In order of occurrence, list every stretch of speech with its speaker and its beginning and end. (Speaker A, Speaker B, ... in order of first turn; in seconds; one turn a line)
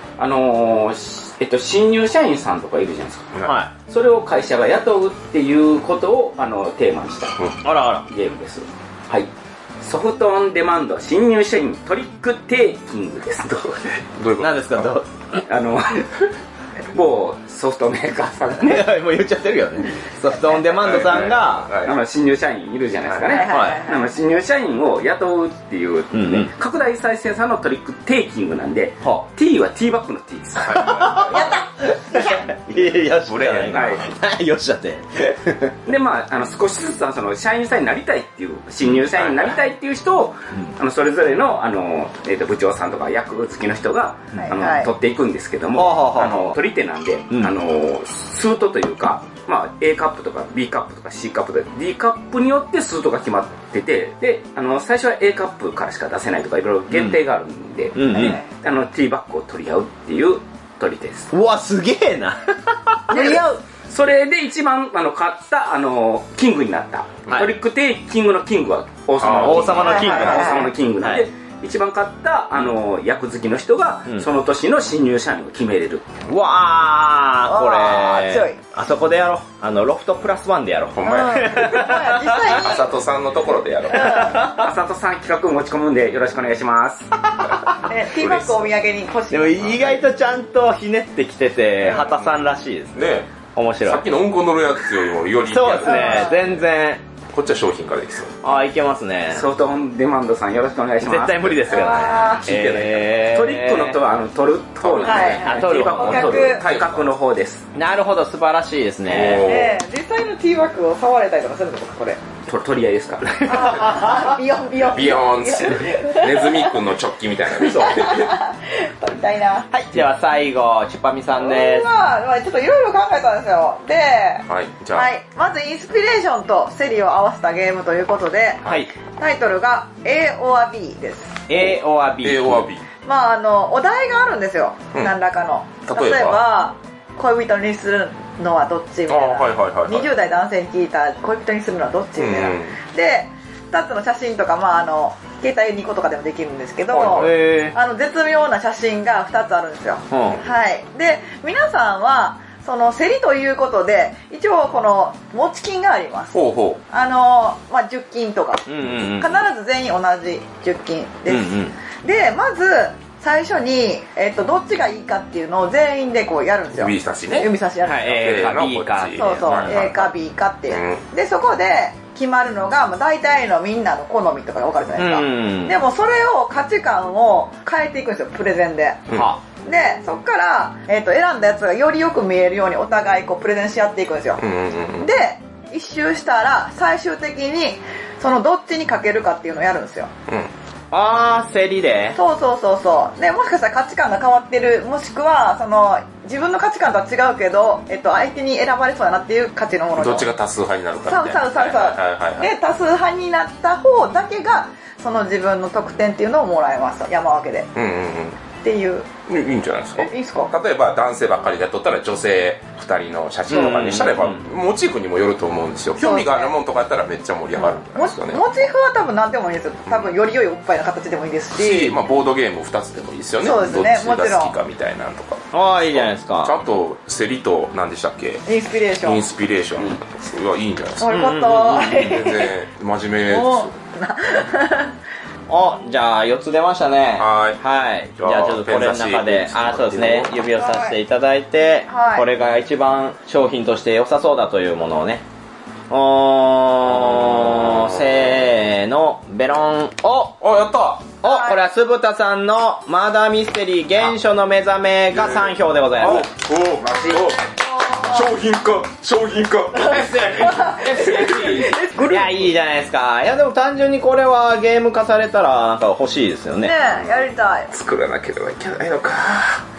Speaker A: 0.2-3.4
Speaker B: 3.4-3.7
Speaker A: 3.9-7.4
Speaker B: 7.6-8.1
Speaker A: 8.1-9.3
Speaker A: 9.8-14.0
Speaker C: 14.1-14.9
Speaker B: 14.4-15.4
Speaker A: 15.4-16.3
Speaker A: 16.9-18.9
Speaker B: 18.6-21.7
Speaker C: 20.7-22.0
Speaker A: 21.8-31.1
Speaker C: 23.1-23.4
Speaker D: 23.2-24.1
Speaker B: 23.5-23.8
Speaker B: 26.1-26.5
Speaker C: 30.6-31.5
Speaker B: 30.8-31.5
Speaker D: 31.3-32.5
Speaker B: 32.1-35.7
Speaker C: 33.2-34.0
Speaker A: 33.7-34.0
Speaker A: 35.9-61.3
Speaker C: 39.1-39.5
Speaker D: 44.4-44.9
Speaker B: 45.8-46.5
Speaker B: 56.9-57.2
Speaker B: 57.9-58.4
Speaker D: 58.1-58.4
Speaker B: 61.3-63.4
Speaker A: 63.1-76.1
Speaker D: 63.1-63.4
Speaker C: 69.2-70.3
Speaker B: 69.4-71.2
Speaker D: 69.8-70.7
Speaker B: 76.3-82.5
Speaker D: 77.5-78.6
Speaker C: 80.9-84.3
Speaker D: 81.0-82.9
Speaker D: 83.9-84.4
Speaker A: 84.3-87.1
Speaker B: 84.3-84.6
Speaker B: 87.4-87.8
Speaker D: 87.8-90.0
Speaker C: 88.1-88.7
Speaker B: 89.3-93.0
Speaker C: 91.8-93.3
Speaker B: 93.5-94.1
Speaker C: 93.8-96.5
Speaker B: 95.5-97.0
Speaker D: 95.8-96.3
Speaker C: 97.3-98.4
Speaker B: 98.4-99.5
Speaker A: 99.3-107.7
Speaker B: 101.0-104.0
Speaker D: 101.7-102.5
Speaker C: 104.8-107.1
Speaker D: 105.0-106.6
Speaker B: 105.4-106.4
Speaker B: 107.7-109.5
Speaker C: 109.1-109.8
Speaker D: 109.4-112.2
Speaker A: 112.5-113.8
Speaker D: 113.4-116.8
Speaker B: 113.7-114.0
Speaker C: 114.8-118.3
Speaker D: 117.8-119.7
Speaker B: 119.7-121.8
Speaker D: 121.4-128.7
Speaker C: 124.5-125.1
Speaker B: 128.6-128.9
Speaker D: 129.2-131.4
Speaker B: 131.5-132.7
Speaker C: 132.2-132.8
Speaker D: 133.0-168.4
Speaker C: 135.9-136.4
Speaker C: 139.1-140.1
Speaker C: 142.2-142.8
Speaker C: 146.9-147.3
Speaker B: 147.1-147.8
Speaker B: 150.1-150.4
Speaker C: 156.3-156.8
Speaker B: 158.7-159.4
Speaker B: 161.3-161.7
Speaker C: 166.7-170.1
Speaker B: 167.8-170.1
Speaker D: 169.1-184.4
Speaker C: 170.7-171.0
Speaker B: 174.9-175.8
Speaker B: 179.1-179.4
Speaker C: 184.4-185.1
Speaker D: 185.0-190.1
Speaker B: 190.9-192.2
Speaker D: 192.1-200.3
Speaker C: 199.9-202.5
Speaker D: 201.0-207.7
Speaker C: 207.7-208.4
Speaker D: 208.6-209.1
Speaker C: 209.3-218.4
Speaker D: 210.0-210.5
Speaker B: 213.5-214.4
Speaker D: 216.0-216.5
Speaker D: 217.9-222.0
Speaker C: 219.9-220.1
Speaker C: 221.5-228.4
Speaker D: 223.4-224.5
Speaker B: 225.5-226.6
Speaker D: 228.4-229.2
Speaker C: 229.0-233.7
Speaker D: 231.0-232.5
Speaker B: 231.1-231.8
Speaker D: 233.3-234.9
Speaker B: 235.5-245.2
Speaker C: 237.2-237.6
Speaker C: 238.2-240.3
Speaker D: 240.5-241.0
Speaker D: 241.9-242.3
Speaker B: 245.9-250.4
Speaker C: 247.0-248.4
Speaker C: 250.4-251.1
Speaker B: 251.2-256.3
Speaker D: 251.2-251.6
Speaker C: 255.1-257.4
Speaker D: 256.8-258.3
Speaker C: 258.0-261.6
Speaker D: 259.7-261.3
Speaker A: 260.4-262.4
Speaker B: 261.9-266.7
Speaker D: 266.6-267.7
Speaker C: 266.8-269.6